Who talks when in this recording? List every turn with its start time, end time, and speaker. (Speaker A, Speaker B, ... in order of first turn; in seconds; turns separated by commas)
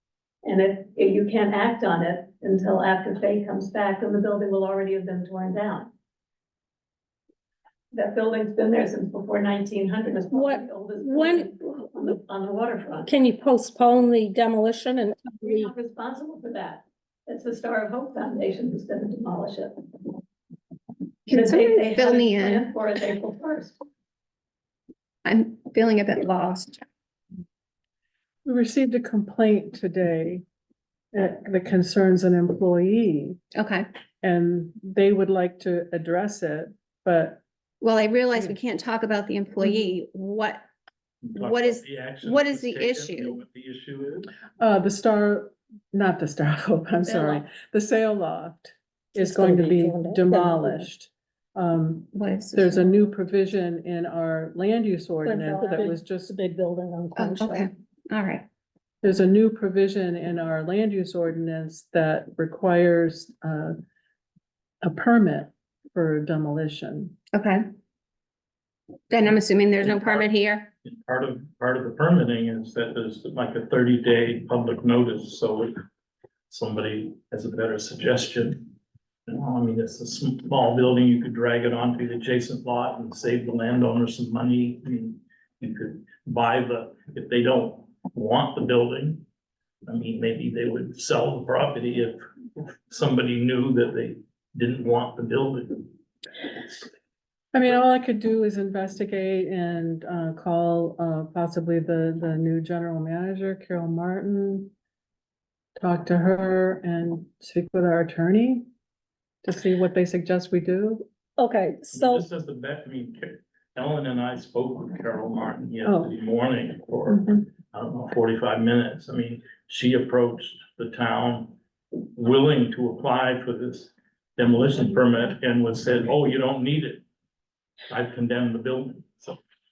Speaker A: 0.4-5.9, Speaker A: 7.9-13.1, Speaker B: 10.3-11.9, Speaker B: 13.1-15.7, Speaker A: 15.4-19.8, Speaker C: 21.3-22.7, Speaker A: 21.3-23.8, Speaker C: 25.2-26.8, Speaker D: 28.4-30.4, Speaker D: 31.1-33.4, Speaker C: 33.5-33.9, Speaker D: 34.2-37.4, Speaker C: 37.8-40.7, Speaker E: 41.2-44.3, Speaker C: 41.4-43.4, Speaker D: 44.6-56.3, Speaker C: 47.0-47.4, Speaker B: 49.1-50.9, Speaker C: 52.1-52.9, Speaker B: 55.2-57.7, Speaker C: 57.1-58.5, Speaker D: 59.0-63.8, Speaker D: 64.8-67.2, Speaker C: 67.3-67.7, Speaker C: 69.1-70.7, Speaker E: 69.8-70.3, Speaker E: 70.8-75.7, Speaker E: 76.5-78.7, Speaker E: 79.3-89.2, Speaker E: 89.8-95.9, Speaker D: 97.5-104.7, Speaker D: 105.8-108.7, Speaker D: 109.4-111.0, Speaker B: 111.4-112.2, Speaker E: 111.9-121.5, Speaker D: 115.8-116.1, Speaker D: 117.1-117.4, Speaker E: 122.2-127.0, Speaker E: 127.9-129.4